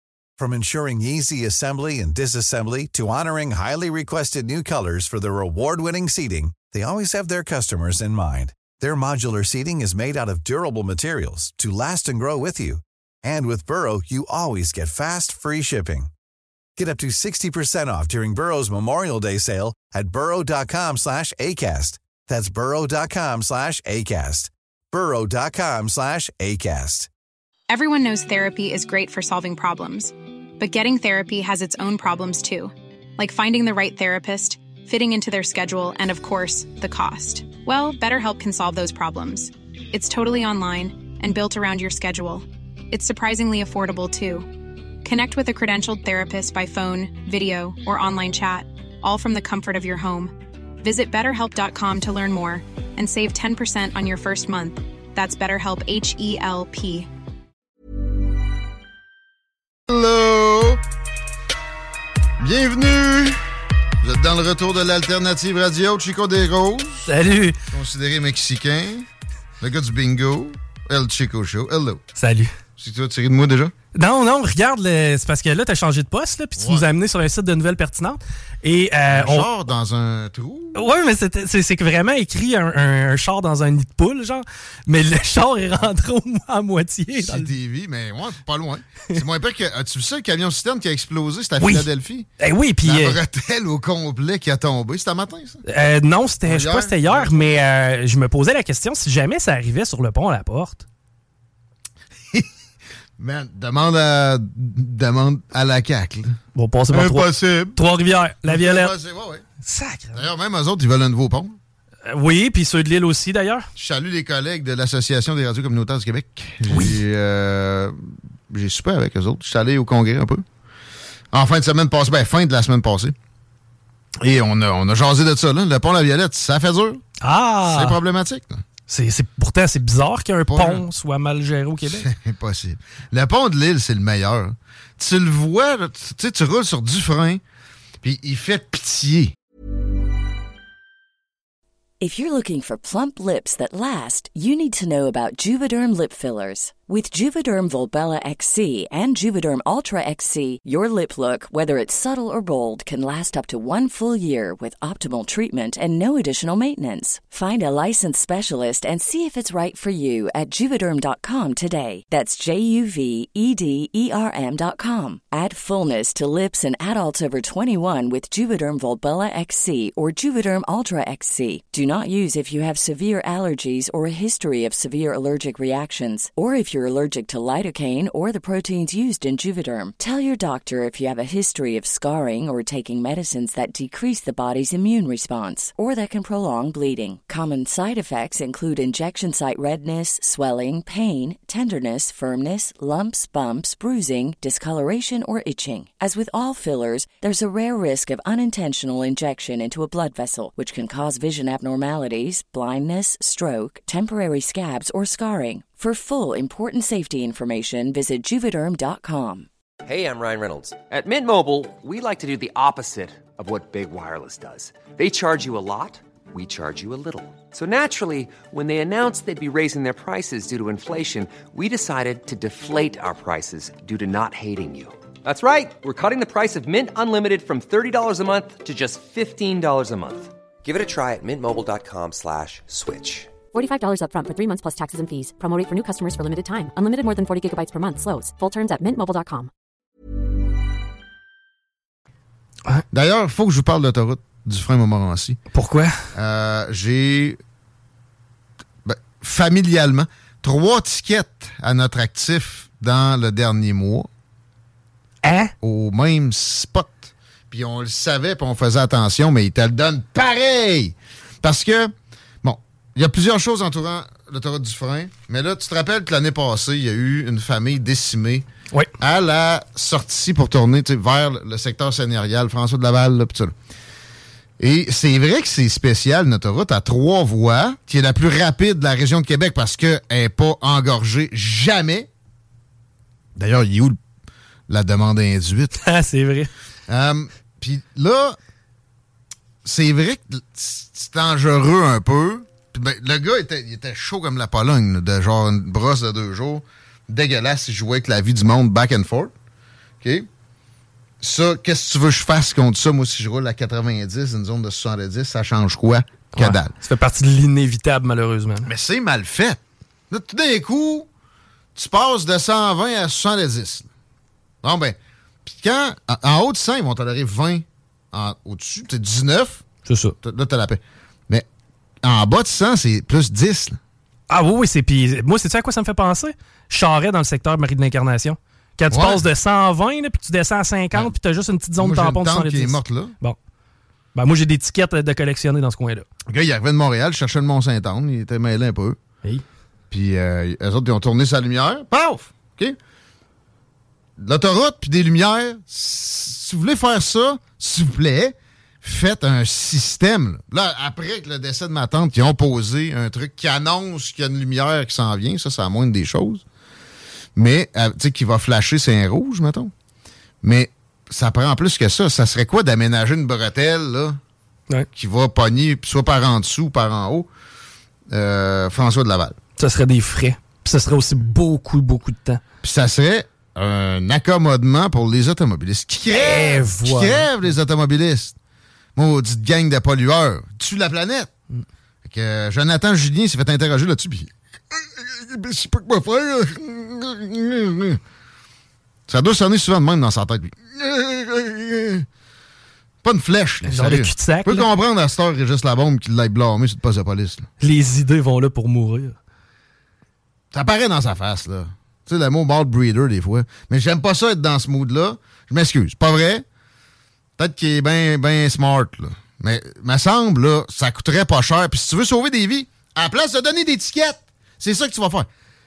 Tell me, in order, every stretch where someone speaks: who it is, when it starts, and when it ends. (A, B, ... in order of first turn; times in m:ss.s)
0:00.4-0:16.1 A
0:16.8-0:27.1 A
0:27.7-0:44.5 B
0:45.0-0:57.1 B
0:59.9-1:00.8 C
1:02.4-1:03.4 C
1:04.0-1:07.1 C
1:07.1-1:07.6 D
1:07.7-1:09.1 C
1:09.6-1:12.0 C
1:12.2-1:12.5 D
1:12.8-1:13.7 C
1:13.9-1:19.5 D
1:16.6-1:16.8 C
1:19.1-1:20.8 C
1:20.7-1:27.5 D
1:27.1-1:32.3 C
1:31.6-1:31.9 D
1:32.4-1:33.2 D
1:32.8-1:35.6 C
1:35.7-1:40.8 D
1:36.4-1:37.5 C
1:43.2-1:46.4 C
1:46.5-1:48.9 D
1:46.9-1:47.8 C
1:48.4-1:49.4 C
1:49.6-1:50.2 D
1:50.1-1:51.6 C
1:52.1-1:53.6 D
1:53.8-2:00.4 C
1:56.7-1:57.0 D
2:01.3-2:03.1 C
2:04.2-2:07.0 C
2:07.2-2:08.0 D
2:07.6-2:08.6 C
2:08.9-2:12.1 D
2:10.5-2:10.8 C
2:11.9-2:17.4 C
2:18.0-2:19.3 C
2:22.0-3:29.5 E
3:29.8-3:53.4 F
3:53.5-3:59.5 G
4:02.9-4:05.4 C
4:05.5-4:06.0 D
4:06.1-4:07.4 C
4:08.8-4:14.1 C
4:15.2-4:15.5 D
4:15.6-4:28.4 C
4:29.0-4:33.5 C
4:34.6-4:42.1 C
4:43.4-4:44.0 C
4:44.7-4:45.8 C
4:45.8-4:46.5 D
4:46.9-4:48.4 C
4:49.6-4:59.3 C
5:00.0-5:00.3 C
5:01.2-5:06.7 C
5:06.4-5:08.7 D
5:08.6-5:11.1 C
5:11.8-5:13.9 C
5:14.6-5:19.6 C
5:19.9-5:20.1 D
5:20.2-5:21.4 C
5:22.0-5:23.8 C
5:24.3-5:33.4 D
5:28.9-5:29.2 C
5:31.8-5:33.1 C
5:34.1-5:36.1 D
5:36.3-5:39.0 C
5:39.9-5:42.8 C
5:44.2-5:56.4 C
5:57.4-5:59.7 C
6:00.4-6:04.2 C
6:04.9-6:07.3 C
6:08.1-6:09.4 C
6:09.6-6:12.4 D
6:12.6-6:18.3 C
6:16.1-6:17.3 D
6:19.0-6:21.3 C
6:22.0-6:28.0 C
6:29.1-6:32.1 C
6:33.0-6:37.5 C
6:33.7-6:34.7 D
6:37.6-6:39.2 D
6:40.5-6:46.4 C
6:47.4-6:55.3 C